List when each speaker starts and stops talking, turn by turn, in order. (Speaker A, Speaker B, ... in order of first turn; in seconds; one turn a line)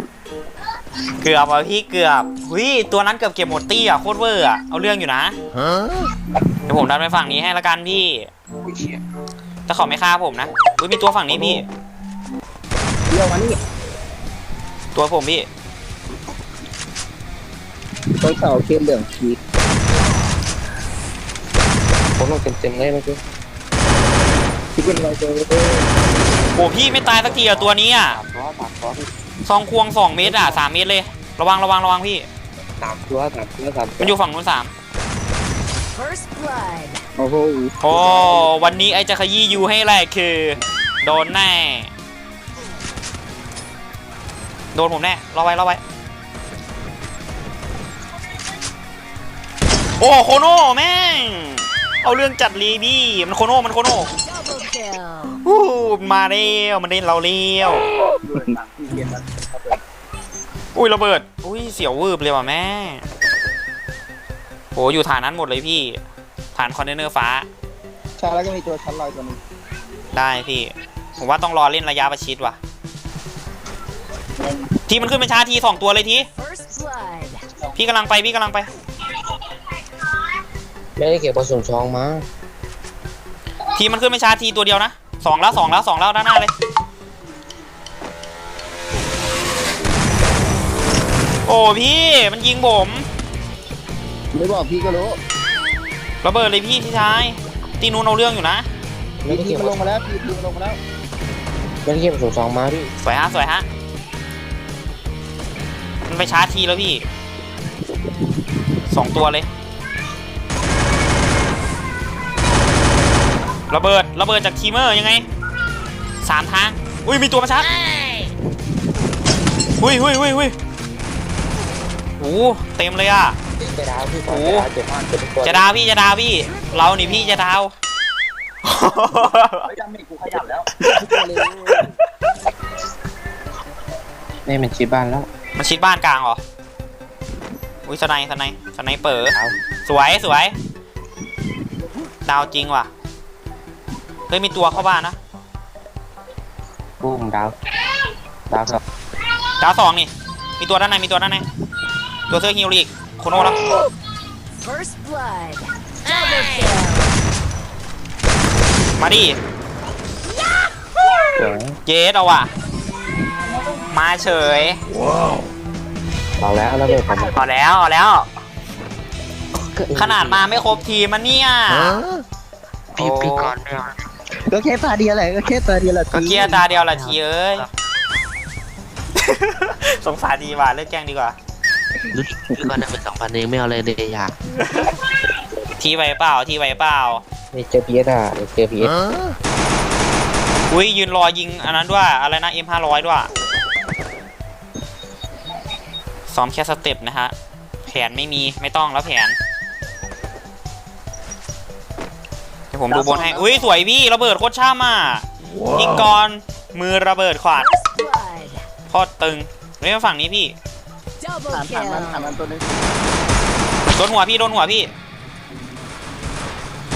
Speaker A: 1.2-5.3
Speaker A: 6.7-8.3
Speaker B: 8.7-9.0
Speaker A: 9.7-11.7
Speaker C: 13.1-13.6
Speaker A: 14.9-15.5
Speaker C: 18.2-19.4
Speaker B: 22.2-23.2
Speaker C: 24.8-25.9
Speaker A: 26.5-28.2
Speaker B: 27.1-29.1
Speaker A: 29.4-32.3
Speaker B: 30.2-30.6
Speaker B: 32.8-34.1
Speaker A: 34.0-34.7
Speaker D: 35.9-37.0
Speaker C: 37.1-37.8
Speaker A: 37.8-41.9
Speaker A: 44.7-45.8
Speaker A: 50.0-54.1
Speaker D: 54.2-55.4
Speaker A: 55.3-57.9
Speaker C: 58.2-59.8
Speaker A: 60.7-63.0
Speaker A: 64.7-66.0
Speaker A: 66.5-67.5
Speaker C: 68.2-69.4
Speaker A: 70.1-72.6
Speaker C: 74.4-74.7
Speaker A: 74.9-76.3
Speaker D: 76.3-77.4
Speaker A: 77.7-78.7
Speaker B: 81.0-82.2
Speaker A: 83.7-86.5
Speaker A: 91.4-93.1
Speaker C: 94.3-95.2
Speaker A: 96.2-98.7
Speaker B: 99.2-99.8
Speaker C: 99.3-100.8
Speaker B: 101.8-102.9
Speaker A: 103.0-103.7
Speaker A: 106.0-107.0
Speaker A: 108.9-109.5
Speaker A: 113.7-115.2
Speaker A: 116.2-117.7
Speaker A: 119.7-120.5
Speaker A: 122.2-123.3
Speaker B: 123.6-125.7
Speaker A: 124.3-124.7
Speaker A: 125.4-127.7
Speaker A: 128.6-129.7
Speaker C: 129.6-131.9
Speaker A: 130.8-131.8
Speaker B: 134.4-135.3
Speaker A: 135.5-136.4
Speaker A: 137.8-140.5
Speaker B: 139.2-139.5
Speaker A: 142.2-142.9
Speaker A: 144.3-145.2
Speaker B: 147.0-147.6
Speaker B: 148.5-148.8
Speaker A: 149.6-151.4
Speaker A: 152.3-153.6
Speaker D: 154.6-157.1
Speaker A: 159.0-159.4
Speaker B: 161.3-161.8
Speaker A: 161.8-162.5
Speaker A: 163.8-164.8
Speaker B: 166.4-167.4
Speaker A: 167.3-168.3
Speaker B: 169.5-170.4
Speaker A: 169.9-172.0
Speaker E: 172.9-173.9
Speaker A: 172.9-173.5
Speaker C: 174.4-176.6
Speaker A: 176.1-177.7
Speaker A: 179.2-181.3
Speaker E: 182.1-184.3
Speaker A: 184.6-185.0
Speaker B: 185.3-185.6
Speaker A: 185.8-187.2
Speaker B: 187.5-189.3
Speaker A: 190.7-193.3
Speaker A: 196.3-197.3
Speaker A: 197.8-199.3
Speaker A: 202.7-207.7
Speaker C: 202.9-203.7
Speaker D: 207.5-208.6
Speaker A: 208.9-210.5
Speaker D: 211.2-212.3
Speaker C: 211.5-212.9
Speaker A: 213.9-214.9